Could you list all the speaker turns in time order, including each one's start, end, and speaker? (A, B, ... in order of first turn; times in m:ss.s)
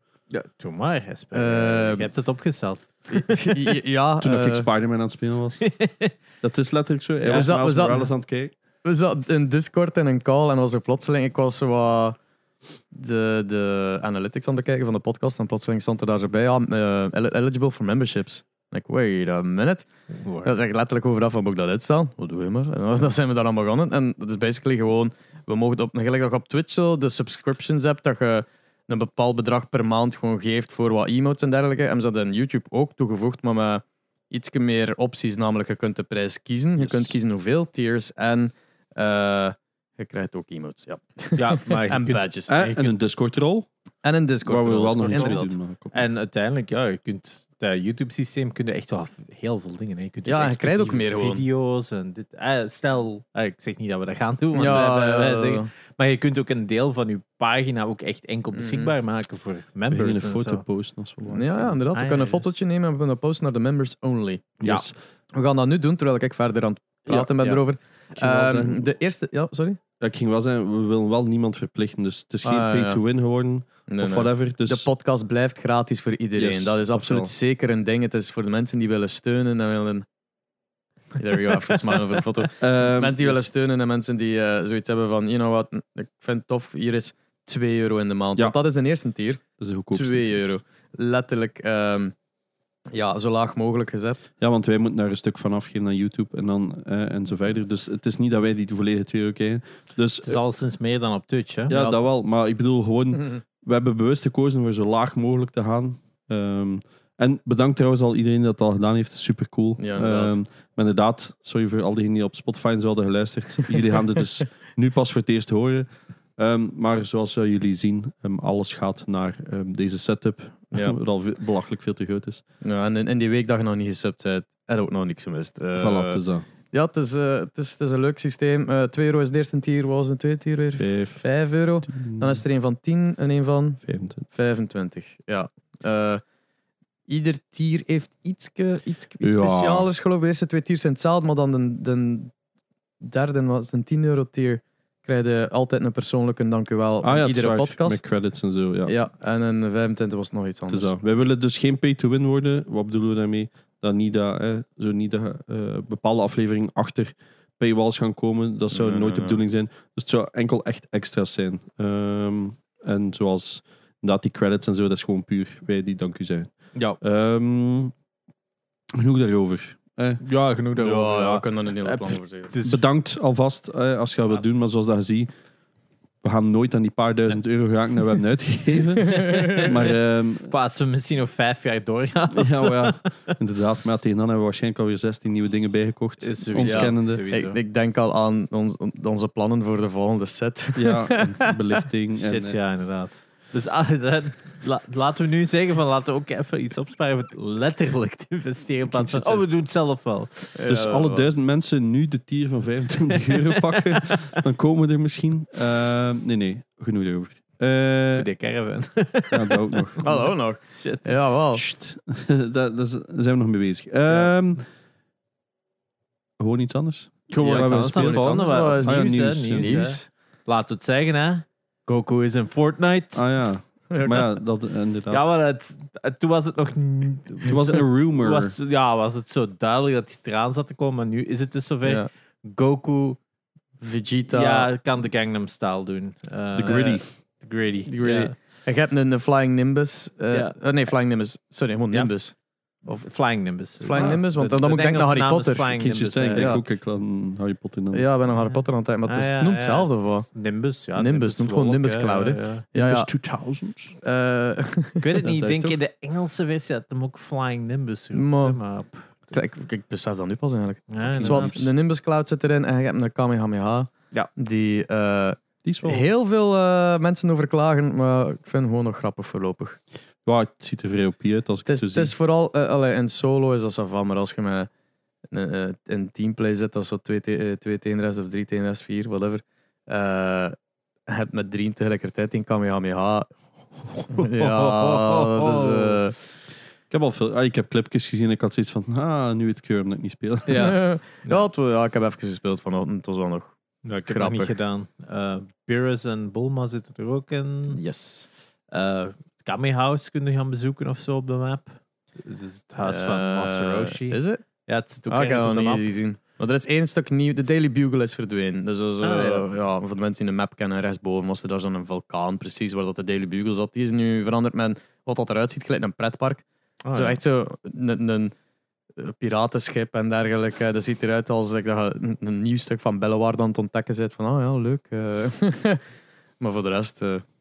0:00.3-0:03.7 A
0:01.3-0:02.1 B
0:03.1-0:04.6 B
0:04.2-0:05.6 C
0:05.6-0:06.1 A
0:06.4-0:08.5 C
0:07.2-0:07.5 A
0:07.3-0:08.1 B
0:08.8-0:12.2 B
0:12.9-0:19.9 B
0:20.2-0:20.5 A
0:20.4-0:42.7 B
0:36.8-0:37.1 C
0:41.4-0:42.3 A
0:42.5-0:43.7 C
0:44.0-0:45.5 B
0:44.4-0:46.0 C
0:45.1-0:45.4 A
0:45.9-1:00.6 A
0:50.2-0:51.4 B
0:54.5-0:55.7 B
0:58.5-0:58.9 B
0:59.9-1:01.8 C
1:01.3-1:09.8 B
1:01.9-1:02.4 A
1:04.6-1:04.9 C
1:08.1-1:08.9 C
1:10.0-1:14.9 C
1:12.4-1:13.0 B
1:13.9-1:20.0 B
1:16.4-1:17.3 C
1:21.2-1:32.1 B
1:22.6-1:23.4 C
1:29.6-1:30.4 C
1:32.9-1:34.3 B
1:34.4-1:40.4 C
1:40.2-1:42.0 A
1:41.7-1:55.8 C
1:49.8-1:50.4 B
1:56.4-2:02.4 C
2:02.6-2:06.2 B
2:05.8-2:06.4 C
2:06.7-2:16.2 B
2:10.8-2:11.2 C
2:11.8-2:12.4 C
2:13.8-2:14.2 C
2:17.1-2:22.3 B
2:19.2-2:19.9 C
2:23.0-2:28.1 B
2:27.0-2:28.9 C
2:28.8-2:30.9 B
2:30.7-2:47.9 C
2:38.7-2:39.4 B
2:48.9-2:50.2 C
2:50.2-2:52.8 A
2:50.7-2:52.5 B
2:52.6-2:55.3 C
2:56.2-3:00.5 C
2:59.0-2:59.7 B
2:59.0-2:59.8 A
3:00.5-3:03.4 A
3:02.3-3:07.2 C
3:06.2-3:07.6 A
3:06.6-3:11.6 B
3:10.7-3:12.6 C
3:12.2-3:20.8 A
3:18.9-3:19.4 C
3:20.5-3:21.3 B
3:20.7-3:28.3 C
3:23.3-3:24.4 A
3:28.1-3:31.1 A
3:29.3-3:30.0 C
3:30.0-3:31.6 B
3:31.5-3:34.6 C
3:36.4-3:39.8 C
3:37.3-3:43.2 A
3:37.4-3:40.1 B
3:43.1-3:45.3 C
3:43.9-3:44.2 B
3:45.1-3:53.2 A
3:47.4-3:48.6 C
3:53.8-3:54.7 B
3:54.3-3:58.3 A
3:56.5-3:57.0 C
3:57.9-4:02.3 B
4:00.3-4:00.7 A
4:02.8-4:06.5 A
4:03.8-4:05.7 B
4:03.9-4:04.5 C
4:05.8-4:08.1 C
4:06.3-4:06.6 B
4:07.9-4:10.3 B
4:08.4-4:12.6 A
4:10.9-4:13.1 B
4:12.7-4:13.9 C
4:14.0-4:15.1 B
4:15.0-4:19.2 A
4:15.2-4:15.8 C
4:18.1-4:18.6 B
4:19.3-4:29.8 B
4:20.9-4:21.6 A
4:21.1-4:21.7 C
4:25.6-4:26.0 C
4:30.2-4:32.1 C
4:31.7-4:34.7 B
4:35.3-4:40.6 B
4:41.1-4:43.3 B
4:44.0-4:46.0 A
4:44.1-4:46.2 B
4:46.9-4:50.7 C
4:50.5-4:51.4 A
4:50.5-4:53.5 B
4:53.8-4:57.8 A
4:54.0-4:54.6 B
4:57.7-4:58.3 B
4:58.7-5:05.9 A
5:02.8-5:04.4 B
5:05.1-5:18.3 B
5:09.0-5:09.5 A
5:16.8-5:17.2 A
5:19.0-5:25.8 B
5:26.4-5:27.2 B